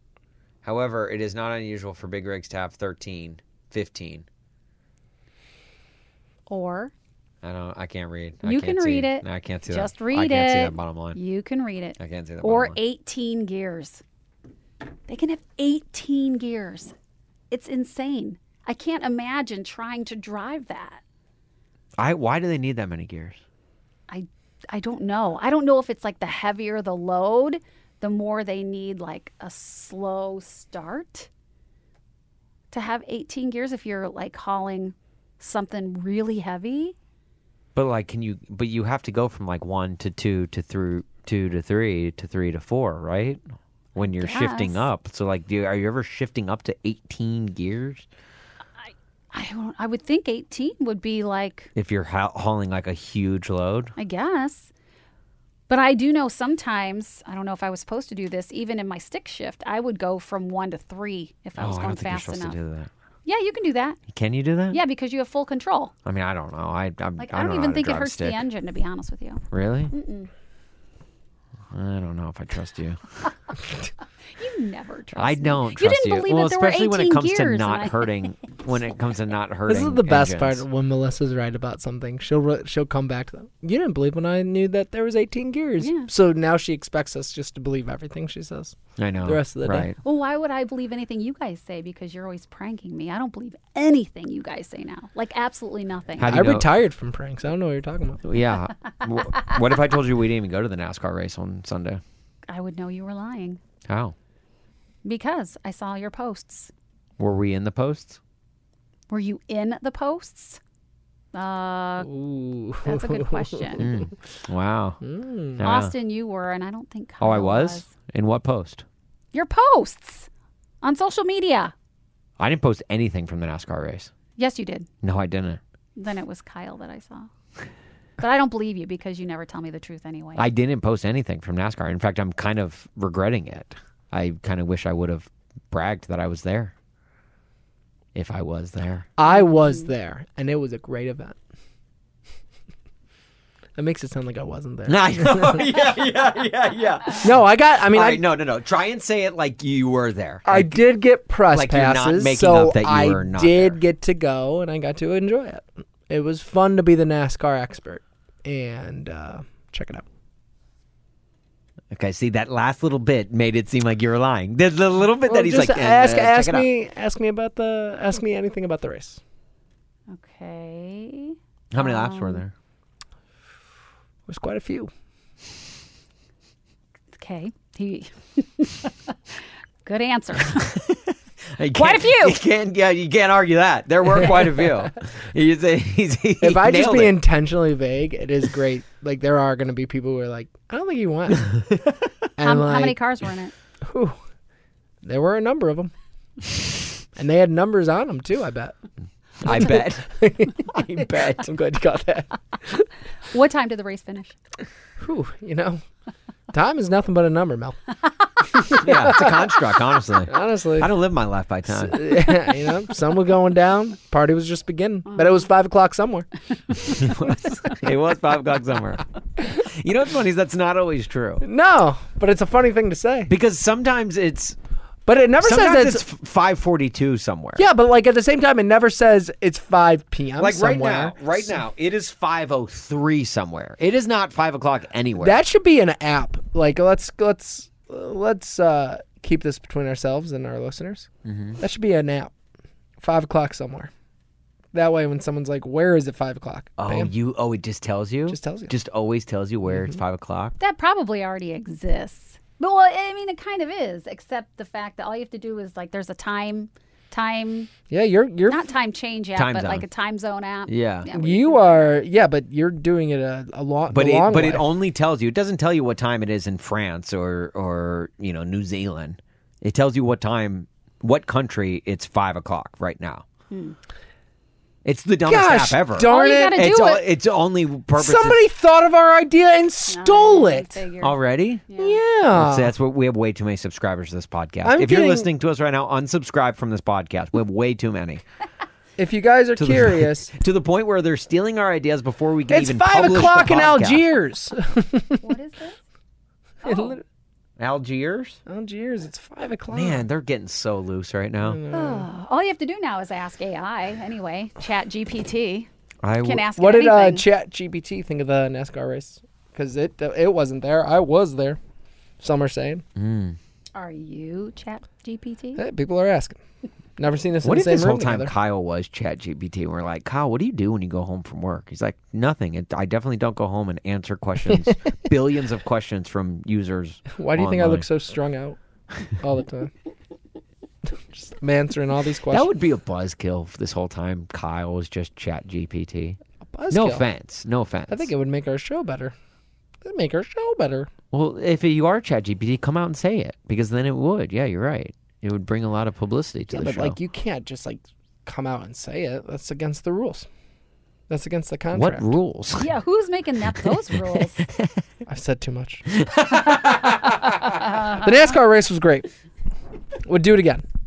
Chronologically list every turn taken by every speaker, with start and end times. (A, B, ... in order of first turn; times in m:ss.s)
0:00.6-0:04.2 A
0:06.5-0:06.9 B
0:07.4-0:11.2 A
0:08.4-0:14.0 B
0:12.0-0:12.8 A
0:15.1-0:16.9 B
0:17.5-0:21.0 B
0:22.0-0:23.4 A
0:24.1-0:31.3 B
0:32.7-0:36.9 B
0:37.7-0:43.4 A
0:43.9-0:48.0 A
0:44.0-0:44.9 B
0:48.8-0:51.7 B
0:51.8-0:53.9 A
0:54.0-0:54.7 B
0:55.7-1:02.6 B
1:01.6-1:02.9 A
1:03.2-1:04.0 B
1:04.1-1:04.8 A
1:04.7-1:05.9 B
1:06.0-1:08.4 A
1:07.2-1:10.3 B
1:09.5-1:09.9 A
1:11.7-1:13.0 A
1:14.3-1:18.3 B
1:15.2-1:20.6 A
1:19.7-1:29.9 C
1:25.8-1:26.1 B
1:29.0-1:30.0 A
1:30.0-1:36.4 B
1:36.2-1:36.7 A
1:36.2-1:38.2 C
1:38.2-1:42.0 A
1:42.5-1:43.6 B
1:43.9-1:44.1 A
1:45.0-1:46.7 B
1:47.2-1:48.2 A
1:49.1-1:50.6 B
1:51.3-1:52.1 B
1:52.0-1:53.6 C
1:52.8-1:53.9 B
1:53.8-1:55.0 A
1:55.0-1:55.6 C
1:55.6-1:55.9 A
1:55.6-1:57.9 B
1:57.2-1:58.8 A
1:59.3-2:00.3 B
2:00.8-2:01.7 B
2:02.4-2:04.1 A
2:04.4-2:04.9 B
2:05.0-2:05.6 A
2:06.0-2:07.3 B
2:08.2-2:10.5 B
2:10.4-2:16.7 A
2:18.1-2:19.1 A
2:19.2-2:21.4 C
2:19.3-2:19.9 B
2:23.8-2:25.6 C
2:24.9-2:30.8 A
2:27.2-2:28.2 C
2:30.4-2:40.0 C
2:31.5-2:33.8 A
2:41.9-2:46.7 A
2:45.2-2:49.2 C
2:50.1-2:52.4 B
2:51.7-2:52.5 A
2:54.3-2:54.9 C
2:57.1-3:00.8 B
3:01.6-3:07.2 A
3:01.7-3:02.4 B
3:06.4-3:11.5 C
3:12.4-3:13.0 C
3:12.4-3:13.5 B
3:13.8-3:14.1 C
3:15.0-3:15.9 C
3:17.1-3:18.7 C
3:19.4-3:21.5 A
3:19.4-3:22.4 C
3:23.3-3:24.4 B
3:25.0-3:25.8 C
3:26.5-3:27.8 C
3:28.7-3:32.2 A
3:28.9-3:29.4 C
3:30.3-3:30.9 C
3:31.8-3:36.3 C
3:37.0-3:41.4 A
3:41.4-3:43.3 C
3:43.3-3:44.6 A
3:45.0-3:46.0 C
3:45.4-3:47.6 A
3:47.6-3:51.4 C
3:50.4-3:55.4 A
3:55.2-4:01.1 C
4:01.2-4:01.6 A
4:01.6-4:02.3 C
4:03.0-4:03.9 C
4:04.7-4:07.1 C
4:06.8-4:10.6 A
4:08.3-4:08.7 C
4:10.6-4:17.7 B
4:17.9-4:18.6 C
4:18.5-4:21.9 B
4:19.3-4:19.9 A
4:20.6-4:21.1 A
4:21.1-4:24.7 C
4:23.9-4:33.2 A
4:33.5-4:33.8 B
4:34.8-4:38.4 A
4:35.2-4:36.6 C
4:36.0-4:37.0 B
4:38.0-4:40.7 C
4:39.9-4:42.0 B
4:41.0-4:41.7 A
4:41.8-4:42.7 C
4:42.3-4:48.2 A
4:44.6-4:45.3 C
4:49.0-4:50.3 C
4:49.6-4:54.1 A
4:52.5-4:55.2 C
4:55.2-4:55.8 B
4:56.6-4:57.0 B
4:56.6-4:57.0 C
4:57.6-4:58.4 A
4:58.5-5:00.0 C
4:59.7-5:01.6 A
5:01.4-5:02.1 C
5:01.7-5:05.7 B
5:06.0-5:06.5 A
5:06.2-5:07.2 B
5:06.6-5:11.6 C
5:12.2-5:12.8 C
5:13.0-5:13.4 A
5:13.7-5:15.6 B
5:15.6-5:16.4 C
5:17.0-5:18.3 C
5:17.4-5:27.8 A
5:27.2-5:28.6 C
5:29.2-5:29.7 C
5:31.1-5:32.5 C
5:32.3-5:36.2 A
5:36.5-5:37.0 C
5:36.7-5:38.1 A
5:37.9-5:39.1 C
5:39.8-5:40.9 C
5:41.1-5:47.0 A
5:46.5-5:50.3 C
5:51.1-5:52.1 C
5:51.7-5:52.8 A
5:52.6-5:54.4 B
5:55.1-5:55.8 C
5:56.0-5:57.5 A
5:58.0-5:59.1 C
6:00.1-6:00.6 C